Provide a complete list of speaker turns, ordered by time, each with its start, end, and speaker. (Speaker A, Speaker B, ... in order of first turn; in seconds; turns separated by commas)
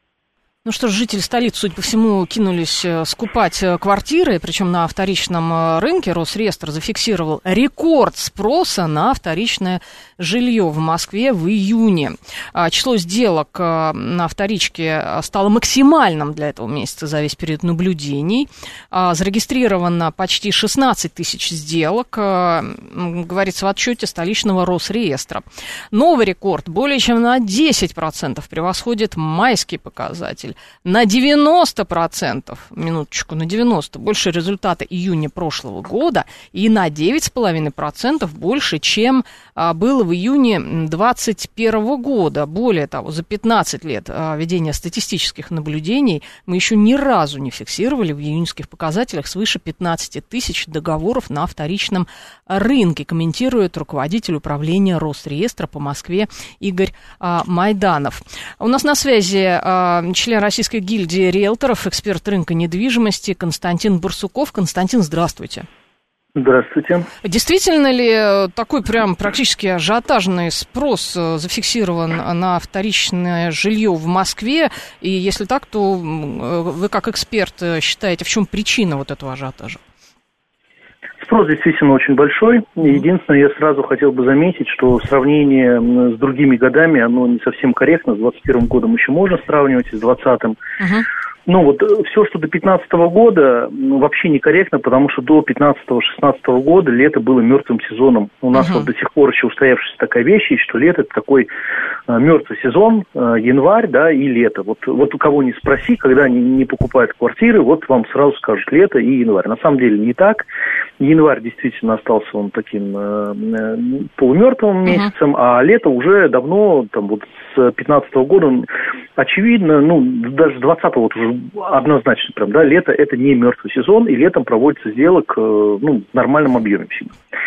Speaker A: 0.6-65.7, Speaker B: 66.4-67.1, Speaker A: 67.2-79.8, Speaker B: 81.2-90.6, Speaker A: 90.8-91.1, Speaker B: 91.5-101.5, Speaker A: 98.5-98.9, Speaker B: 102.1-110.5, Speaker B: 111.0-127.2, Speaker A: 114.9-115.1